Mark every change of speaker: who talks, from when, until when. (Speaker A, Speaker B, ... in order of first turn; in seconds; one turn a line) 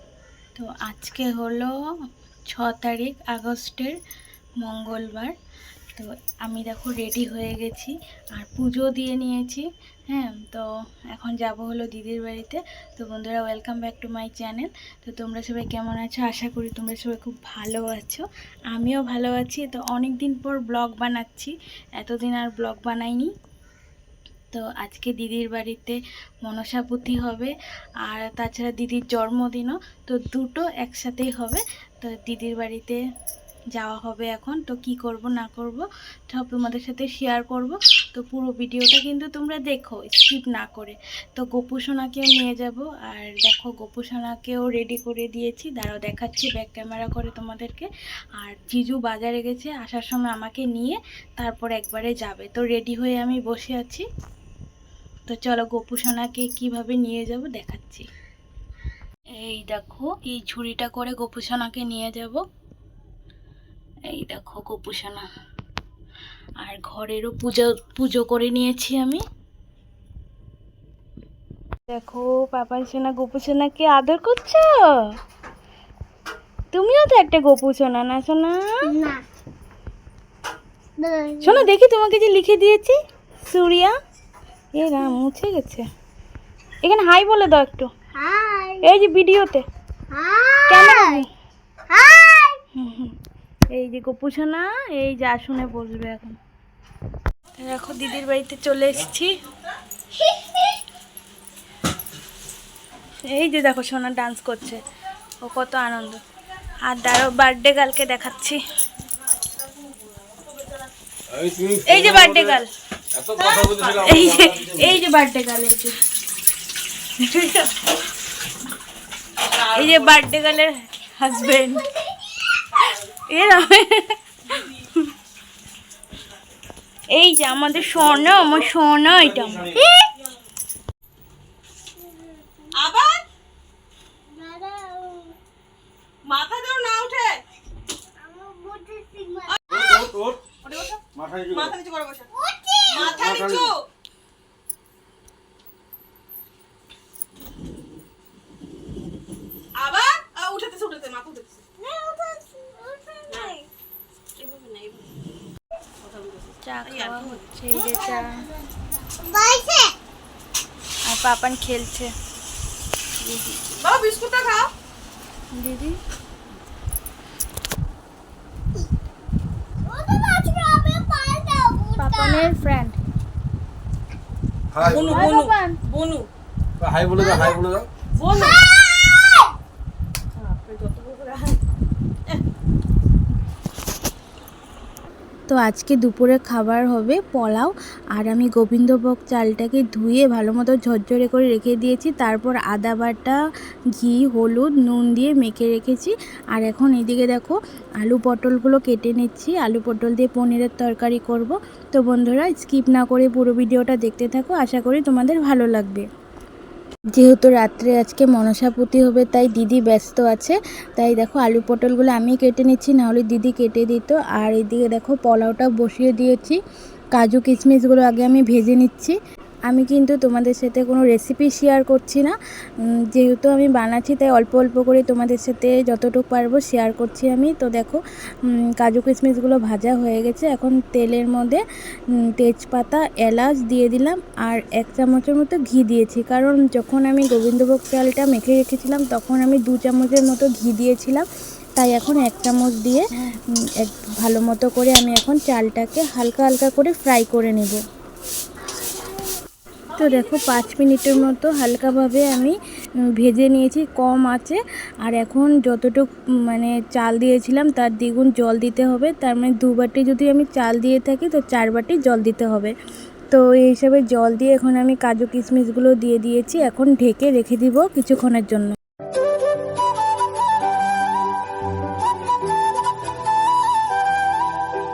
Speaker A: 0.5-1.7
Speaker A: 2.5-4.0
Speaker A: 4.6-5.3
Speaker A: 6.0-23.3
Speaker A: 24.5-33.0
Speaker A: 33.7-54.0
Speaker A: 55.3-58.1
Speaker A: 59.3-62.4
Speaker A: 64.1-65.3
Speaker A: 66.6-69.2
Speaker A: 71.9-75.2
Speaker A: 76.7-78.9
Speaker B: 78.8-79.2
Speaker B: 81.0-81.7
Speaker A: 81.4-84.0
Speaker A: 84.7-85.9
Speaker A: 86.8-87.9
Speaker B: 88.1-88.8
Speaker A: 88.8-89.6
Speaker B: 90.1-91.2
Speaker A: 90.7-91.3
Speaker B: 91.9-92.6
Speaker A: 92.7-93.1
Speaker A: 93.7-96.4
Speaker A: 97.6-99.3
Speaker B: 100.2-100.6
Speaker A: 103.3-104.8
Speaker A: 105.4-106.2
Speaker A: 106.8-108.6
Speaker C: 111.3-112.6
Speaker A: 111.8-112.7
Speaker C: 113.1-115.0
Speaker D: 113.4-114.4
Speaker A: 114.0-115.9
Speaker A: 117.2-118.0
Speaker A: 119.5-122.0
Speaker A: 122.8-125.0
Speaker A: 127.1-129.8
Speaker B: 132.0-132.7
Speaker D: 132.7-133.2
Speaker B: 134.3-135.3
Speaker D: 136.2-137.4
Speaker B: 138.2-140.0
Speaker D: 139.5-140.0
Speaker C: 139.7-140.4
Speaker D: 140.6-142.3
Speaker C: 141.1-141.7
Speaker B: 142.3-143.2
Speaker D: 142.9-143.8
Speaker C: 143.1-143.7
Speaker D: 149.7-151.6
Speaker B: 151.8-153.7
Speaker D: 153.3-153.6
Speaker D: 154.3-155.1
Speaker D: 156.0-157.5
Speaker A: 156.6-158.5
Speaker B: 157.7-159.9
Speaker A: 161.0-162.1
Speaker A: 163.2-163.7
Speaker D: 163.8-164.7
Speaker A: 165.5-166.0
Speaker B: 169.8-172.5
Speaker A: 172.0-173.0
Speaker C: 174.7-175.1
Speaker D: 174.8-176.3
Speaker A: 174.9-175.8
Speaker C: 176.8-177.9
Speaker B: 177.2-177.6
Speaker D: 178.2-178.6
Speaker D: 180.3-181.6
Speaker A: 185.5-193.4
Speaker A: 193.9-206.1
Speaker A: 207.1-216.6
Speaker A: 217.1-222.3
Speaker A: 223.1-231.6
Speaker A: 232.2-241.2
Speaker A: 241.8-247.8
Speaker A: 249.9-252.6
Speaker A: 253.1-262.7
Speaker A: 263.3-268.8